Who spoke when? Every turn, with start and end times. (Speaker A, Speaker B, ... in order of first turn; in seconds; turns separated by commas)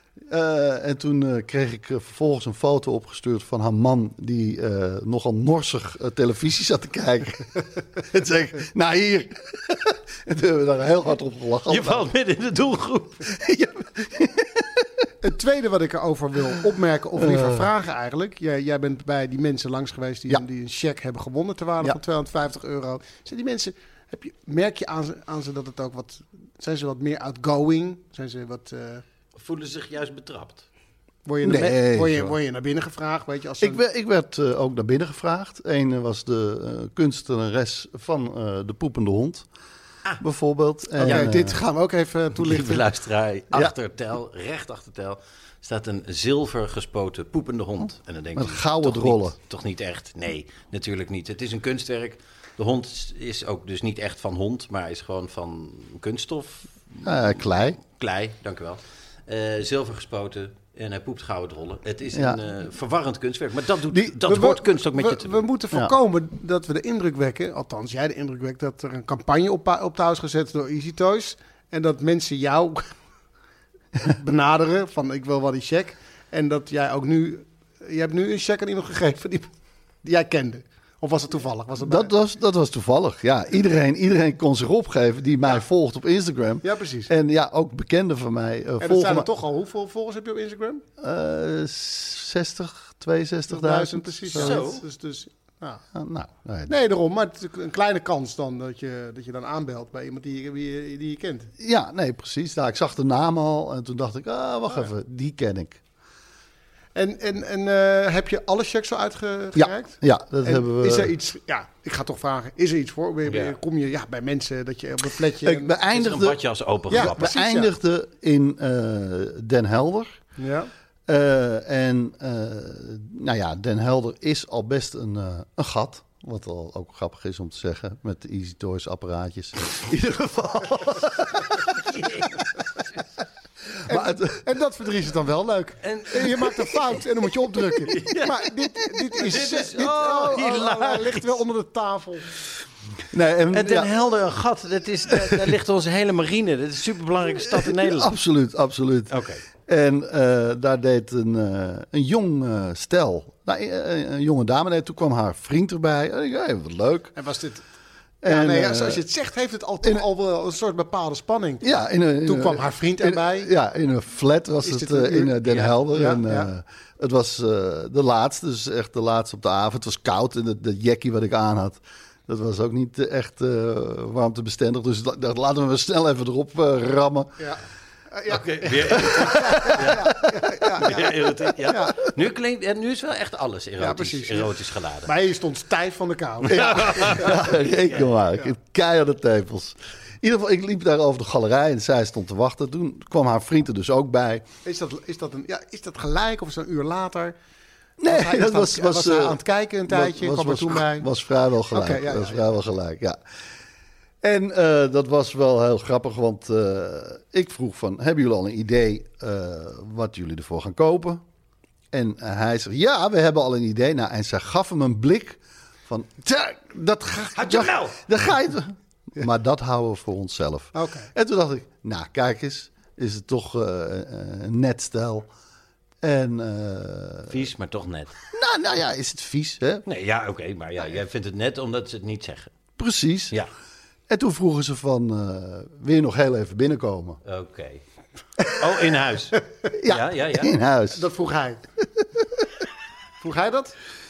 Speaker A: 0.2-12.1, Speaker B: 11.7-13.3, Speaker A: 13.3-14.8, Speaker C: 15.2-29.0, Speaker A: 17.1-17.7, Speaker B: 29.4-30.6, Speaker C: 31.2-33.8, Speaker A: 31.4-32.3, Speaker A: 33.6-39.5, Speaker A: 40.2-41.5, Speaker B: 41.0-41.3, Speaker C: 41.0-42.9, Speaker B: 42.4-65.4, Speaker A: 48.3-49.4, Speaker A: 57.0-57.8, Speaker A: 62.1-62.4, Speaker A: 63.9-64.2, Speaker C: 64.2-72.9, Speaker C: 74.0-79.5, Speaker C: 80.0-82.1, Speaker A: 81.8-89.3, Speaker C: 86.6-87.1, Speaker C: 88.8-90.8, Speaker A: 91.0-94.6, Speaker C: 93.5-95.8, Speaker B: 94.3-94.8, Speaker A: 95.9-96.7, Speaker C: 96.7-101.5, Speaker A: 101.6-105.8, Speaker C: 106.9-115.7, Speaker A: 109.6-111.1, Speaker B: 113.3-113.5, Speaker A: 115.4-120.2, Speaker B: 115.9-117.3, Speaker C: 116.9-117.7, Speaker C: 120.4-120.7, Speaker A: 121.1-131.6, Speaker B: 131.7-133.0, Speaker A: 133.7-134.4, Speaker C: 133.9-142.3, Speaker B: 135.8-136.9, Speaker B: 137.9-138.4, Speaker B: 139.1-141.4, Speaker A: 143.1-143.9, Speaker B: 143.5-148.1, Speaker A: 147.4-157.1, Speaker B: 149.1-149.4, Speaker C: 157.2-157.6, Speaker A: 158.2-159.0, Speaker C: 158.2-161.6, Speaker A: 161.6-177.4, Speaker C: 162.2-163.5, Speaker C: 164.6-166.5, Speaker C: 177.4-181.9, Speaker B: 178.3-180.0, Speaker A: 179.0-180.8, Speaker B: 180.8-185.1, Speaker C: 183.8-187.4, Speaker A: 186.5-194.4, Speaker B: 186.8-187.3, Speaker C: 194.7-197.3, Speaker A: 198.0-203.2, Speaker C: 198.1-201.1, Speaker C: 201.7-202.6, Speaker A: 204.2-211.2, Speaker A: 211.9-225.3, Speaker B: 217.3-218.0, Speaker C: 220.7-221.1, Speaker A: 226.0-227.4, Speaker B: 227.3-228.2, Speaker A: 228.3-229.8, Speaker B: 229.9-232.5, Speaker A: 232.8-233.4, Speaker A: 234.1-237.2, Speaker B: 237.2-237.8, Speaker B: 238.5-240.5, Speaker A: 239.7-241.0, Speaker C: 240.9-241.6, Speaker C: 243.2-243.8